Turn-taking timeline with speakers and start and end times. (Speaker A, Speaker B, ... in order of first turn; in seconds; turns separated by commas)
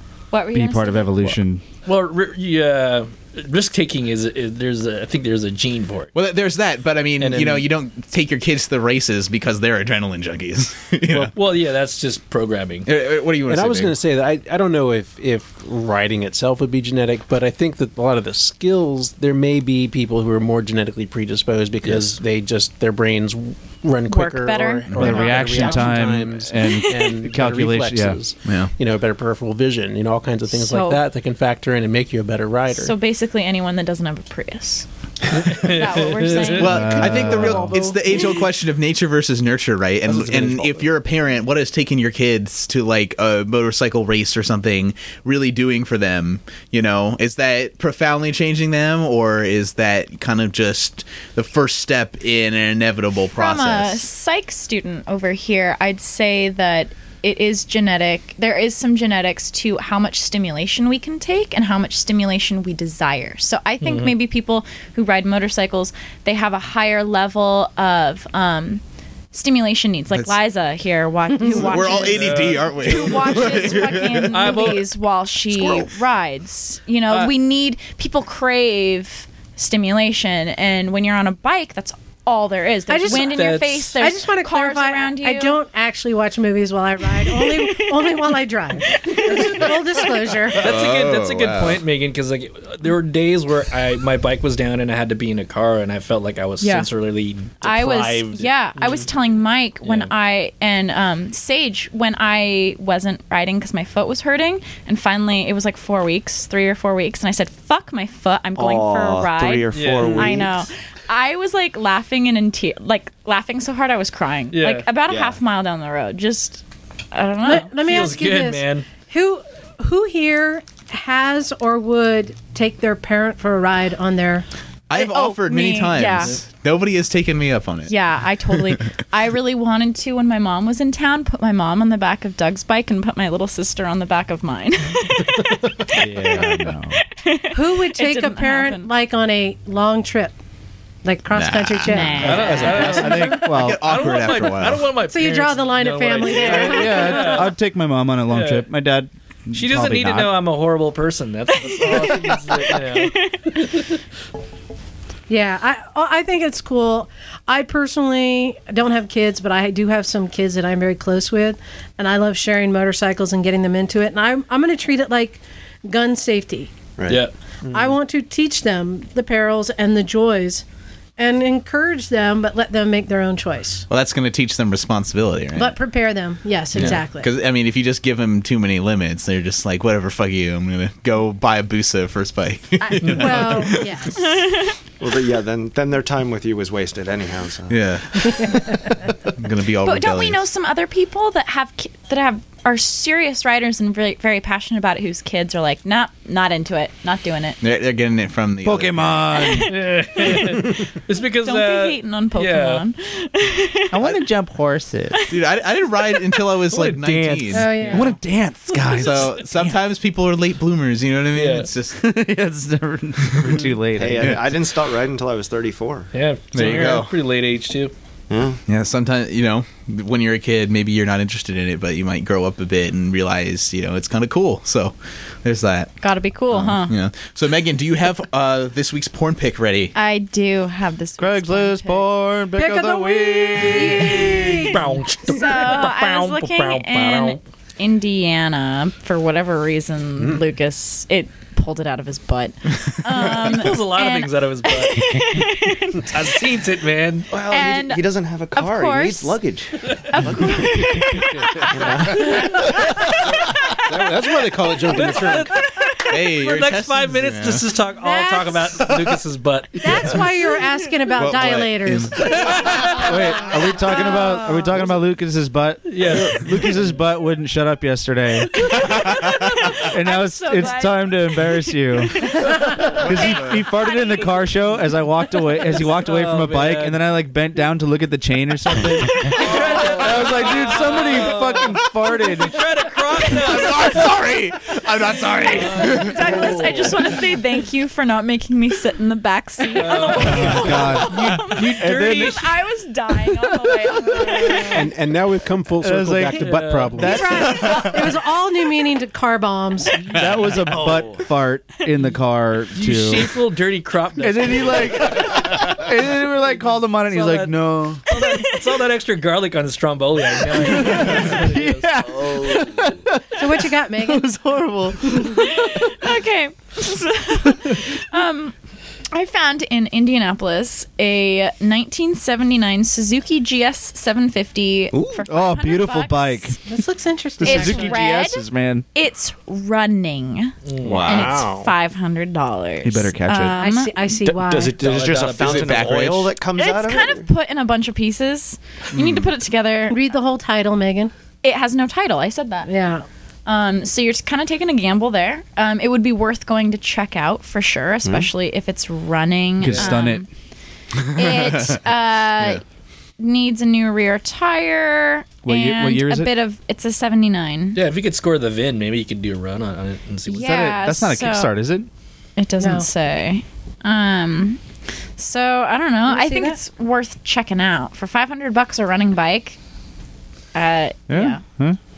Speaker A: 0.3-1.3, Speaker B: 0.5-1.6, Speaker C: 1.9-6.1, Speaker D: 6.1-11.3, Speaker C: 7.2-7.7, Speaker C: 11.3-12.9, Speaker D: 12.8-14.0, Speaker E: 13.5-32.9, Speaker A: 24.1-26.0, Speaker D: 24.9-25.2, Speaker B: 24.9-28.2, Speaker A: 26.6-27.1, Speaker D: 28.4-28.7, Speaker A: 30.5-31.0, Speaker A: 32.7-38.0, Speaker C: 35.3-37.2, Speaker D: 36.5-54.0, Speaker B: 36.6-37.8, Speaker E: 40.1-40.8, Speaker A: 53.3-68.8, Speaker C: 63.8-64.1, Speaker A: 69.3-85.6, Speaker D: 71.4-74.6, Speaker C: 71.7-74.9, Speaker D: 75.5-75.9, Speaker F: 82.9-90.7, Speaker C: 83.1-83.9, Speaker A: 87.2-88.1, Speaker A: 88.8-89.7, Speaker C: 90.6-99.1, Speaker D: 90.6-91.8, Speaker A: 96.6-96.9, Speaker A: 97.6-117.7, Speaker C: 99.8-100.1, Speaker G: 108.5-110.7, Speaker C: 109.7-110.4, Speaker C: 114.5-114.9, Speaker G: 115.1-115.4, Speaker F: 117.4-124.5, Speaker C: 117.5-118.8, Speaker D: 124.9-127.9, Speaker A: 124.9-126.4, Speaker A: 127.9-138.9, Speaker D: 128.5-128.8, Speaker B: 135.9-137.0, Speaker F: 137.5-140.3, Speaker F: 141.0-142.9, Speaker D: 141.3-142.2, Speaker A: 141.8-143.3, Speaker C: 142.2-147.5, Speaker B: 142.4-144.0, Speaker D: 143.4-144.9, Speaker F: 145.1-147.4, Speaker B: 146.4-150.4, Speaker C: 148.3-148.7, Speaker C: 149.5-153.2, Speaker A: 151.5-152.3, Speaker A: 152.8-153.8, Speaker F: 155.3-166.7, Speaker G: 167.0-167.2, Speaker C: 167.1-167.3, Speaker F: 167.7-170.6, Speaker F: 171.2-173.8, Speaker D: 173.9-175.8, Speaker F: 175.6-177.3, Speaker D: 176.7-183.9, Speaker C: 183.0-183.4, Speaker F: 183.1-184.2, Speaker A: 184.1-184.8, Speaker G: 185.0-188.4, Speaker D: 187.7-188.8, Speaker D: 189.3-190.4, Speaker A: 189.8-197.6, Speaker D: 197.6-199.3, Speaker B: 198.6-199.7, Speaker A: 199.3-200.8, Speaker C: 199.7-202.8, Speaker A: 201.4-204.0, Speaker B: 203.9-205.2, Speaker A: 205.1-205.4, Speaker D: 205.3-207.7, Speaker A: 206.1-206.4, Speaker C: 206.7-208.0, Speaker F: 207.5-208.1, Speaker B: 207.9-209.4, Speaker D: 208.9-212.0, Speaker C: 209.0-209.3, Speaker C: 211.3-211.7, Speaker B: 211.9-214.5, Speaker G: 213.9-216.1, Speaker C: 216.1-217.9, Speaker D: 216.5-217.1, Speaker G: 218.3-218.6, Speaker D: 218.7-226.0, Speaker A: 226.0-226.9, Speaker D: 226.5-229.9, Speaker A: 229.9-232.1, Speaker B: 231.2-234.4, Speaker F: 232.6-234.8, Speaker A: 233.6-234.5, Speaker C: 234.6-237.4, Speaker A: 235.2-246.5, Speaker E: 240.2-240.4, Speaker C: 243.2-245.4, Speaker C: 246.0-247.3, Speaker G: 247.3-251.1, Speaker A: 247.4-249.4, Speaker A: 250.1-253.3, Speaker C: 251.2-251.7, Speaker G: 251.7-252.8, Speaker E: 253.8-255.5, Speaker C: 254.9-260.2, Speaker A: 255.6-256.1, Speaker D: 256.1-257.6, Speaker F: 257.9-258.8, Speaker F: 259.8-262.2, Speaker D: 261.2-263.0, Speaker C: 262.2-263.4, Speaker A: 262.8-264.7, Speaker B: 263.0-268.6, Speaker C: 265.9-266.8, Speaker A: 268.6-274.7, Speaker D: 268.9-269.4, Speaker B: 269.9-282.6, Speaker D: 273.0-273.6, Speaker C: 275.8-277.0, Speaker C: 279.1-284.1, Speaker A: 279.2-279.8, Speaker B: 283.3-284.0, Speaker D: 283.3-286.2, Speaker B: 285.1-286.1, Speaker C: 285.4-287.1, Speaker A: 285.7-294.9, Speaker C: 289.7-292.5, Speaker B: 290.2-292.4, Speaker B: 294.1-294.6, Speaker E: 294.6-297.4, Speaker B: 295.8-297.9, Speaker C: 296.3-297.1, Speaker F: 297.0-299.9, Speaker B: 300.1-303.3, Speaker G: 300.7-301.2, Speaker C: 302.7-305.5, Speaker B: 304.2-308.0, Speaker C: 307.1-312.3, Speaker B: 310.5-315.4, Speaker F: 313.4-314.3, Speaker A: 315.2-318.5, Speaker A: 319.1-326.6, Speaker G: 324.9-325.2, Speaker B: 325.3-326.6, Speaker F: 326.7-328.0, Speaker B: 327.4-328.9, Speaker A: 327.4-334.1, Speaker C: 330.6-331.2, Speaker G: 330.8-331.3, Speaker E: 331.0-331.7, Speaker B: 332.8-333.6, Speaker F: 333.6-334.8, Speaker G: 334.3-337.3, Speaker C: 334.8-335.9, Speaker D: 335.1-336.4, Speaker A: 336.5-340.1, Speaker D: 338.9-339.3, Speaker F: 339.9-341.1, Speaker A: 341.4-342.7, Speaker F: 342.6-343.0, Speaker A: 343.4-350.3, Speaker G: 348.0-348.3, Speaker B: 349.6-350.2, Speaker D: 351.0-351.8, Speaker A: 351.1-352.6, Speaker A: 353.2-357.8, Speaker B: 355.4-356.3, Speaker C: 357.7-360.7, Speaker A: 360.3-361.5, Speaker B: 360.4-361.9, Speaker A: 362.4-364.6, Speaker F: 362.6-362.9, Speaker A: 365.2-369.6, Speaker F: 366.1-366.6, Speaker A: 370.5-371.4, Speaker B: 371.1-371.8